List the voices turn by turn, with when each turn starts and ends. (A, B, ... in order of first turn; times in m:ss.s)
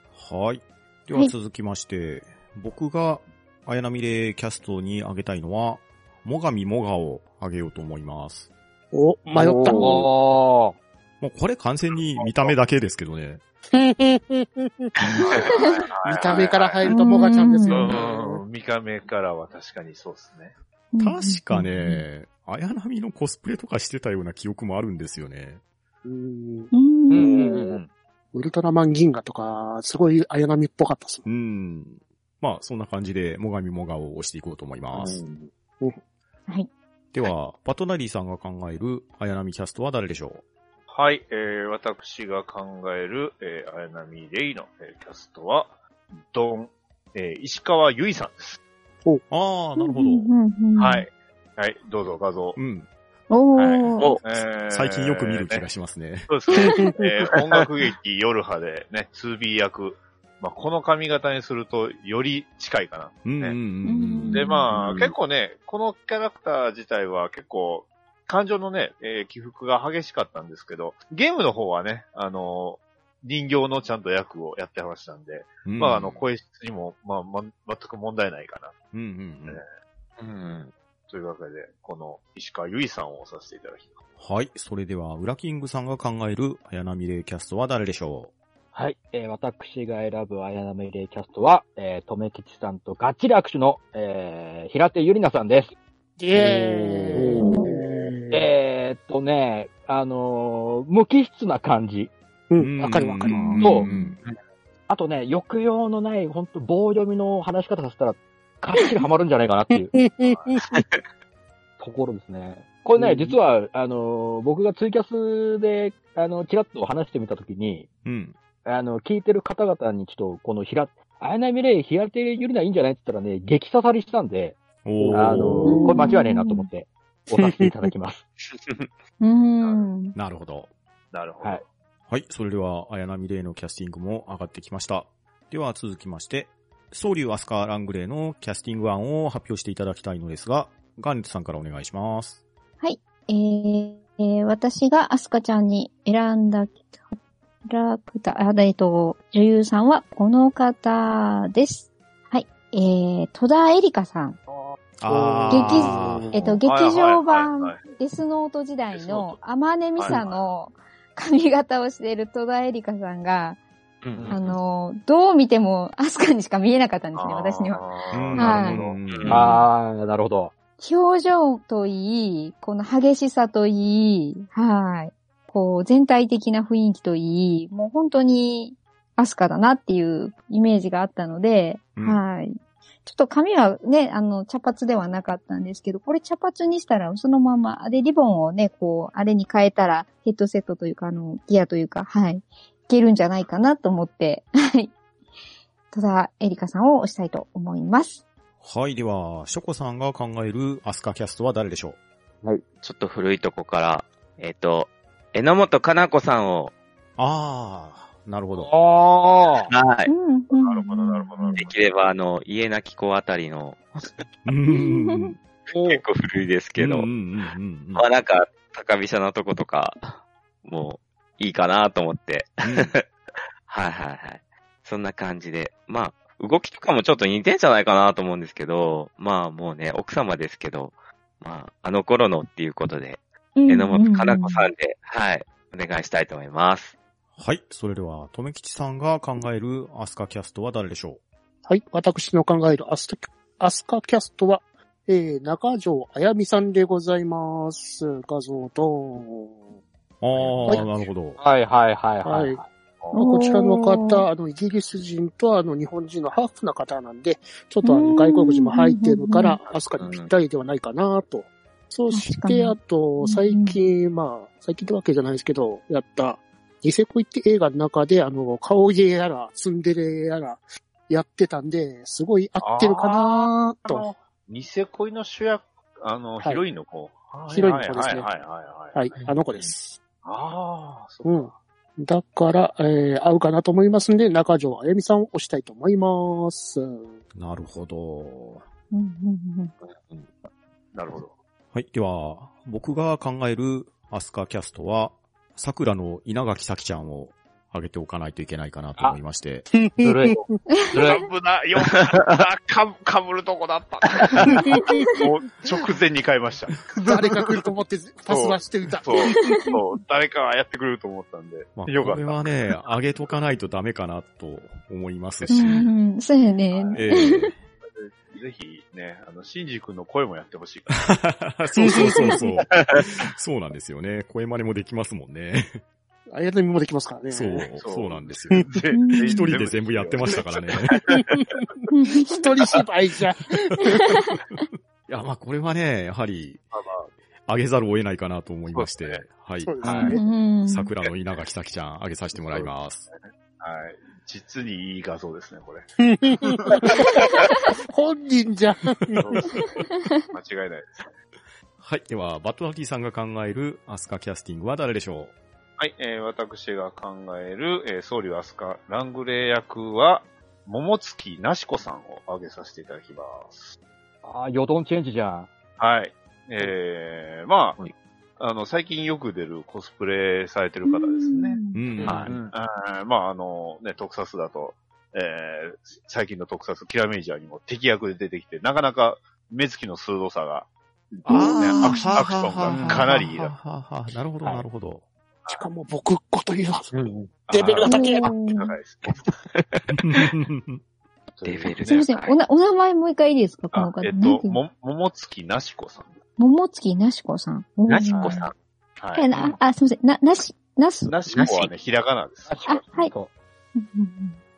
0:00.1-0:08.5 A
0:08.9-0:10.1 B
0:09.3-0:10.8 C
0:11.2-0:13.4 A
0:12.2-0:12.5 D
0:13.7-0:15.5 B
0:15.2-0:16.9 D
0:15.2-0:15.8 E
0:15.4-0:15.7 F
0:16.0-0:18.4 B
0:16.9-0:18.0 F
0:17.7-0:20.5 D
0:20.9-0:22.0 F
0:21.0-0:25.6 A
0:26.0-0:26.7 B
0:26.7-0:27.4 F
0:27.1-0:27.8 C
0:28.3-0:31.2 B
0:31.2-0:35.2 A
0:35.0-0:36.0 B
0:37.1-0:40.4 A
0:40.9-0:45.8 D
0:46.3-0:48.6 D
0:49.3-0:50.3 A
0:49.8-0:51.0 F
0:50.8-0:52.6 D
0:52.6-0:52.9 A
0:53.3-0:54.2 F
0:53.5-0:55.6 D
0:54.7-0:56.3 A
0:56.3-1:03.6 D
0:56.8-0:57.3 B
1:03.2-1:05.0 A
1:03.8-1:04.7 F
1:04.3-1:18.7 D
1:15.6-1:16.2 A
1:18.9-1:19.6 A
1:20.2-1:20.7 E
1:21.1-1:24.0 D
1:24.2-1:28.3 A
1:28.7-1:35.8 C
1:36.2-1:38.4 B
1:36.4-1:37.7 C
1:37.4-1:37.7 F
1:38.3-1:42.1 C
1:42.5-1:43.6 B
1:42.6-1:44.2 A
1:43.3-1:44.2 F
1:43.6-1:43.8 C
1:44.9-1:49.9 C
1:49.9-1:50.8 B
1:50.2-1:50.6 D
1:50.7-1:51.0 E
1:51.8-1:57.9 C
1:53.0-1:53.4 B
1:58.0-1:58.4 A
1:58.6-2:08.2 C
2:04.8-2:05.8 A
2:05.0-2:05.9 B
2:05.6-2:06.7 F
2:07.4-2:07.9 B
2:09.2-2:10.1 F
2:09.6-2:09.9 D
2:10.1-2:10.7 A
2:11.1-2:11.6 D
2:12.1-2:22.4 A
2:22.8-2:34.4 F
2:35.0-2:36.4 A
2:35.1-2:36.6 B
2:35.5-2:43.6 F
2:36.6-2:37.8 D
2:38.9-2:39.4 D
2:40.0-2:40.4 D
2:44.0-2:44.6 E
2:44.2-2:44.4 D
2:44.3-2:48.8 F
2:47.1-2:49.0 D
2:48.1-2:49.6 A
2:49.1-2:49.6 E
2:49.3-2:50.5 C
2:50.8-3:14.9 F
3:02.0-3:02.2 A
3:15.9-3:18.2 F
3:18.6-3:22.0 A
3:22.8-3:26.7 E
3:27.2-3:28.7 A
3:28.5-3:29.7 C
3:29.7-3:30.1 E
3:30.0-3:31.6 F
3:30.5-3:31.8 D
3:31.6-3:34.2 E
3:34.4-3:35.4 A
3:34.7-3:35.3 F
3:35.7-3:36.0 C
3:35.7-3:37.1 E
3:36.8-3:38.0 A
3:37.9-3:43.0 E
3:42.6-3:42.9 A
3:43.7-3:57.0 E
3:53.6-3:54.7 F
3:57.4-4:01.2 A
4:01.6-4:09.7 B
4:10.2-4:11.4 A
4:10.3-4:10.8 D
4:11.4-4:12.7 C
4:12.2-4:12.6 B
4:13.1-4:14.2 F
4:13.1-4:34.1 B
4:17.8-4:19.6 F
4:20.0-4:20.3 E
4:22.1-4:23.8 F
4:32.6-4:39.7 D
4:37.5-4:38.3 B
4:38.9-4:40.0 B
4:40.2-4:41.6 D
4:41.2-4:47.2 B
4:47.3-4:48.6 A
4:48.9-4:49.7 F
4:50.9-4:51.3 D
4:51.7-4:59.7 A
4:59.7-5:00.5 B
5:00.0-5:01.3 C
5:00.9-5:07.6 D
5:01.9-5:02.2 E
5:04.9-5:05.2 F
5:07.0-5:09.7 B
5:08.3-5:12.8 D
5:11.8-5:15.9 A
5:15.5-5:17.5 F
5:16.7-5:17.0 D
5:16.9-5:17.6 A
5:17.8-5:21.1 D
5:21.0-5:25.8 A
5:26.3-5:27.7 B
5:27.3-5:28.7 A
5:27.6-5:31.1 D
5:28.9-5:29.4 F
5:29.2-5:31.0 A
5:31.1-5:34.2 B
5:31.9-5:32.4 F
5:33.8-5:34.2 F
5:35.1-5:36.6 A
5:36.7-5:37.1 D
5:37.4-5:40.1 A
5:38.7-5:39.2 D
5:39.6-5:40.2 B
5:39.8-5:40.2 C
5:40.1-5:40.9 F
5:40.6-5:43.1 A
5:42.3-5:47.5 D
5:46.0-5:49.6 B
5:49.2-5:49.7 D
5:50.2-5:51.1 D
5:51.8-5:55.3 A
5:55.8-6:03.8 D
6:04.2-6:05.5 C
6:05.8-6:07.9 D
6:08.4-6:23.5 D
6:10.8-6:11.8 F
6:11.7-6:12.3 A
6:12.0-6:12.4 E
6:21.2-6:25.0 A
6:21.3-6:22.2 F
6:22.7-6:23.0 C
6:25.5-6:28.3 B
6:26.9-6:27.3 E
6:27.4-6:29.3 D
6:27.8-6:28.8 F
6:29.5-6:29.9 E
6:30.0-6:30.8 A
6:31.3-6:32.1 D
6:31.4-6:32.4 E
6:31.9-6:34.6 F
6:33.7-6:36.1 D
6:36.4-6:38.5 F
6:37.9-6:38.5 E
6:38.1-6:39.3 D
6:39.1-6:41.1 F
6:41.1-6:42.9 D
6:41.3-6:41.7 E
6:42.5-6:43.3 C
6:42.7-6:43.1 F
6:43.7-6:44.4 F